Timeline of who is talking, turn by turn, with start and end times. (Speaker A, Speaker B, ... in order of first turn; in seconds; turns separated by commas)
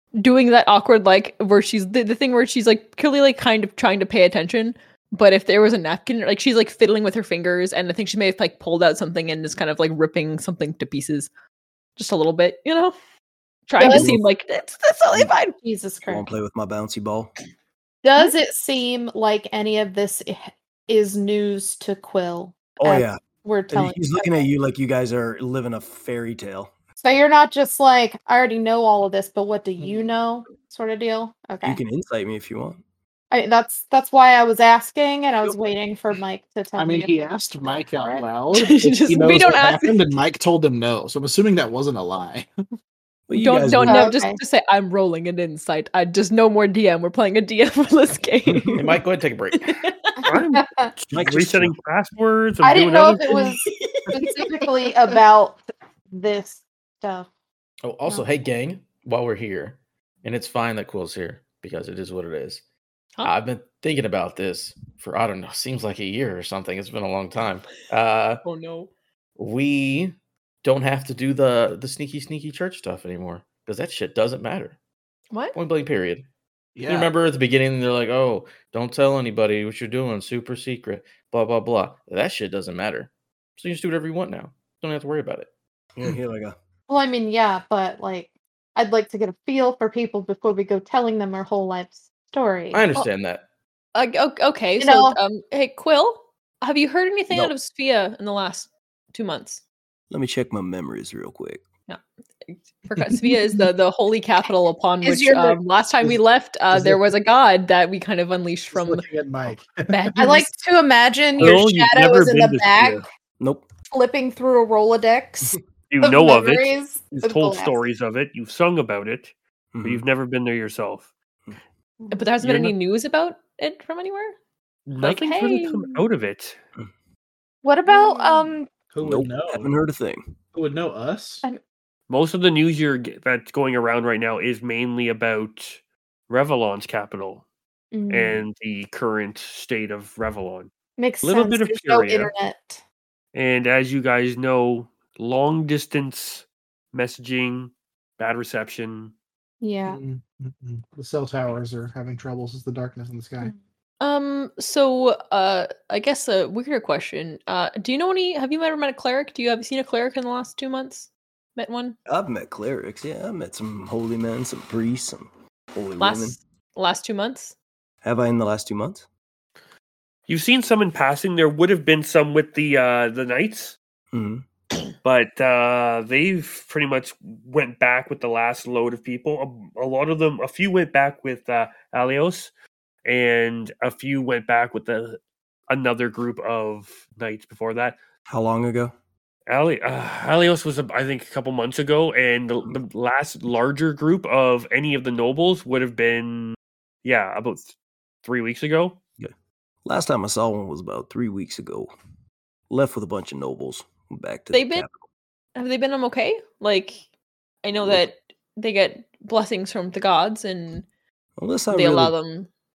Speaker A: 0.2-11.3, Speaker A: 12.0-13.0, Speaker A: 13.7-15.6, Speaker B: 13.8-14.2, Speaker C: 13.9-14.2, Speaker B: 15.6-16.3, Speaker C: 16.0-17.3, Speaker B: 18.0-24.4, Speaker C: 22.8-26.7, Speaker B: 27.0-31.8, Speaker C: 31.6-32.8, Speaker B: 33.3-37.1, Speaker D: 36.8-42.5, Speaker B: 38.0-38.2, Speaker A: 38.5-40.0, Speaker C: 43.3-44.1, Speaker A: 43.3-49.0, Speaker B: 43.9-44.4, Speaker C: 48.5-48.8, Speaker E: 48.8-49.8, Speaker A: 49.5-50.2, Speaker B: 50.2-50.9, Speaker F: 50.2-53.4, Speaker C: 51.1-51.8, Speaker B: 52.6-55.6, Speaker B: 56.1-57.3, Speaker E: 57.8-62.6, Speaker E: 63.2-68.4, Speaker A: 68.4-68.9, Speaker E: 69.4-74.8, Speaker A: 75.3-75.6, Speaker E: 75.5-76.2, Speaker D: 76.8-77.1, Speaker E: 76.9-85.5, Speaker C: 86.0-86.6, Speaker B: 86.9-92.8, Speaker E: 92.7-93.4, Speaker A: 94.0-99.6, Speaker B: 94.8-95.2, Speaker C: 100.1-101.6, Speaker A: 101.9-109.1, Speaker B: 105.0-105.6, Speaker D: 106.7-107.1, Speaker D: 108.7-110.3, Speaker A: 109.9-110.5, Speaker B: 110.2-113.0, Speaker F: 111.4-113.0, Speaker C: 113.4-113.7, Speaker B: 113.9-117.8, Speaker F: 115.9-121.1, Speaker C: 119.7-120.0, Speaker A: 122.1-124.4, Speaker F: 122.4-122.8, Speaker F: 124.9-126.6, Speaker A: 125.0-126.0, Speaker B: 127.6-128.7, Speaker A: 127.9-128.5, Speaker D: 128.9-129.7, Speaker C: 129.0-130.3, Speaker D: 130.5-131.4, Speaker F: 132.1-137.4, Speaker B: 137.9-138.5, Speaker F: 138.1-140.7, Speaker B: 141.0-142.8, Speaker F: 141.2-142.3, Speaker F: 143.3-149.1, Speaker B: 149.6-150.0, Speaker D: 149.9-153.5, Speaker A: 154.0-162.0, Speaker C: 162.1-166.4, Speaker A: 166.0-167.6, Speaker C: 168.0-169.1, Speaker F: 170.3-173.8, Speaker C: 174.1-174.4, Speaker F: 175.0-182.5, Speaker F: 183.1-188.0, Speaker C: 188.3-188.9, Speaker F: 189.5-199.0, Speaker C: 199.8-201.9, Speaker C: 202.7-205.0, Speaker A: 204.5-204.9, Speaker A: 205.6-207.0, Speaker A: 207.6-210.9, Speaker C: 207.8-208.1, Speaker C: 211.4-212.2, Speaker A: 211.7-212.5